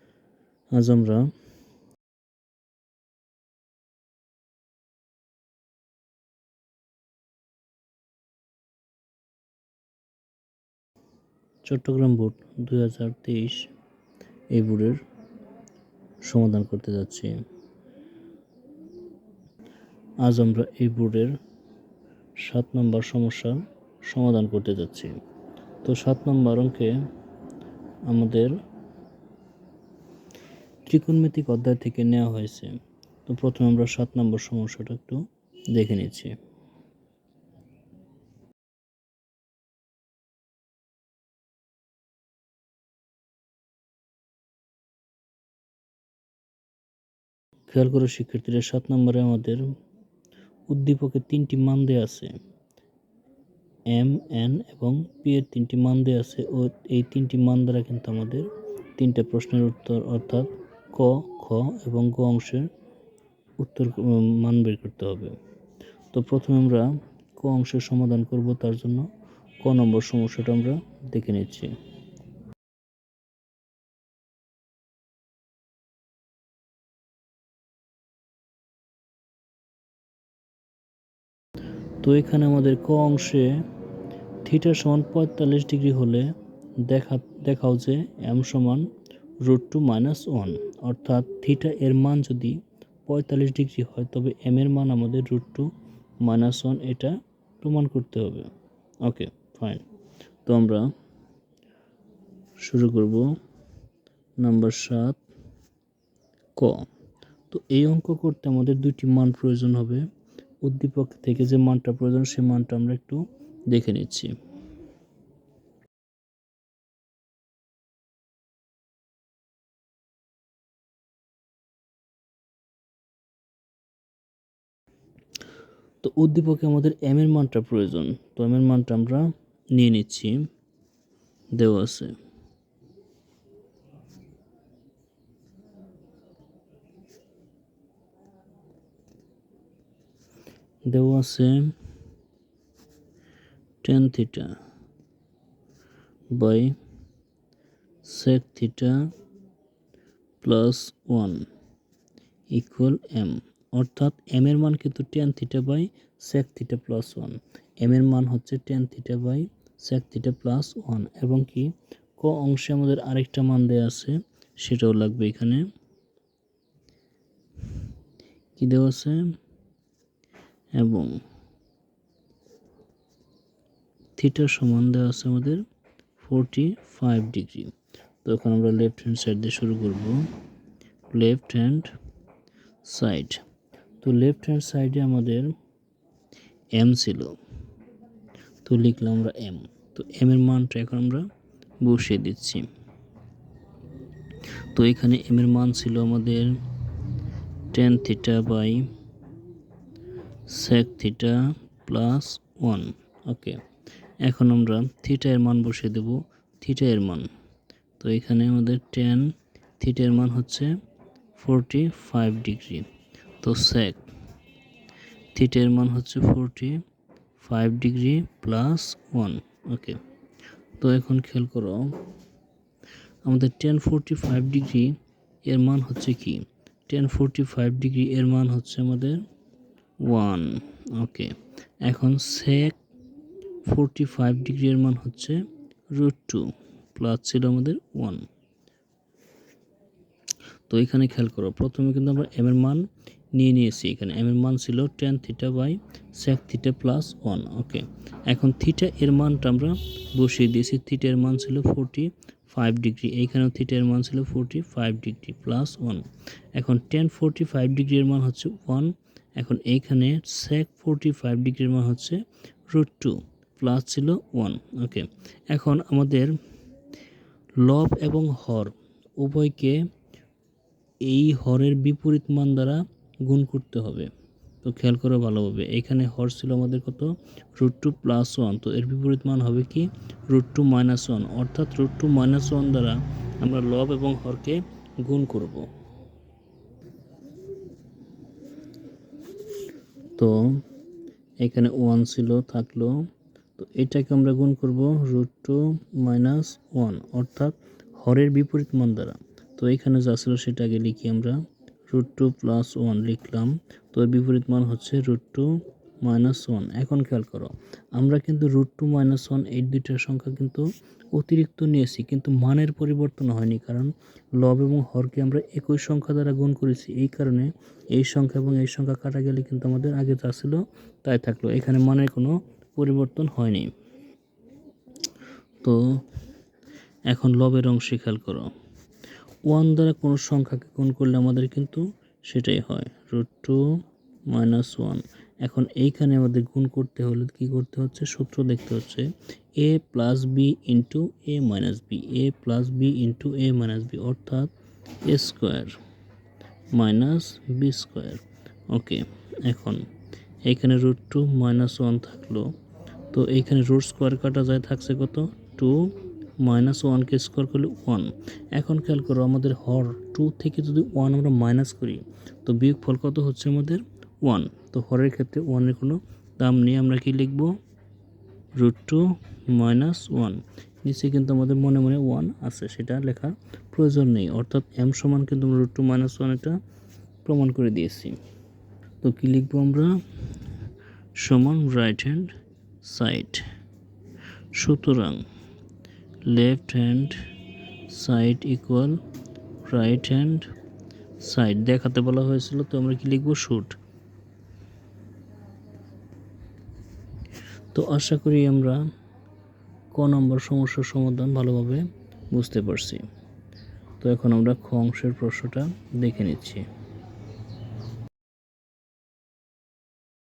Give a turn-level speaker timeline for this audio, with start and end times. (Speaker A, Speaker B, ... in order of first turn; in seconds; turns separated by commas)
Speaker A: 0.7-1.3, Speaker A: 11.6-13.7, Speaker A: 14.5-15.0, Speaker A: 16.2-17.4, Speaker A: 20.2-21.4, Speaker A: 22.4-25.2, Speaker A: 25.8-27.1, Speaker A: 28.1-28.6, Speaker A: 30.9-36.4, Speaker A: 47.7-49.8, Speaker A: 50.7-52.4, Speaker A: 53.9-62.7, Speaker A: 63.6-65.4, Speaker A: 66.1-71.8, Speaker A: 82.0-83.7, Speaker A: 84.4-98.5, Speaker A: 99.0-99.8, Speaker A: 100.5-100.9, Speaker A: 102.6-103.4, Speaker A: 104.4-105.2, Speaker A: 106.5-106.9, Speaker A: 107.5-110.1, Speaker A: 110.6-114.3, Speaker A: 126.0-130.5, Speaker A: 131.6-132.2, Speaker A: 140.9-141.8, Speaker A: 143.8-144.6, Speaker A: 146.3-146.8, Speaker A: 148.0-149.1, Speaker A: 150.4-151.5, Speaker A: 152.5-165.7, Speaker A: 168.6-169.4, Speaker A: 170.7-171.2, Speaker A: 174.2-175.6, Speaker A: 176.2-180.3, Speaker A: 181.1-181.9, Speaker A: 182.8-183.4, Speaker A: 184.0-185.5, Speaker A: 186.7-187.4, Speaker A: 188.6-191.3, Speaker A: 191.8-192.7, Speaker A: 194.7-196.6, Speaker A: 197.7-198.9, Speaker A: 200.5-203.6, Speaker A: 204.2-207.3, Speaker A: 208.0-210.7, Speaker A: 211.4-212.9, Speaker A: 213.4-214.0, Speaker A: 215.3-216.8, Speaker A: 217.4-220.0, Speaker A: 220.8-222.0, Speaker A: 223.2-229.2, Speaker A: 230.0-232.8, Speaker A: 233.7-238.3, Speaker A: 240.7-266.3, Speaker A: 267.6-269.8, Speaker A: 271.0-274.1, Speaker A: 274.6-285.7, Speaker A: 290.2-290.6, Speaker A: 291.4-323.7, Speaker A: 325.6-326.0, Speaker A: 327.1-328.5, Speaker A: 329.5-344.5, Speaker A: 345.0-345.8, Speaker A: 346.7-349.9, Speaker A: 350.4-352.5, Speaker A: 353.1-367.6, Speaker A: 368.6-376.6, Speaker A: 377.2-378.2, Speaker A: 379.0-380.0, Speaker A: 381.1-383.4, Speaker A: 384.5-385.2, Speaker A: 386.3-387.2, Speaker A: 387.9-389.0, Speaker A: 389.6-390.5, Speaker A: 391.2-393.8, Speaker A: 397.7-398.8, Speaker A: 399.9-403.1, Speaker A: 404.0-406.7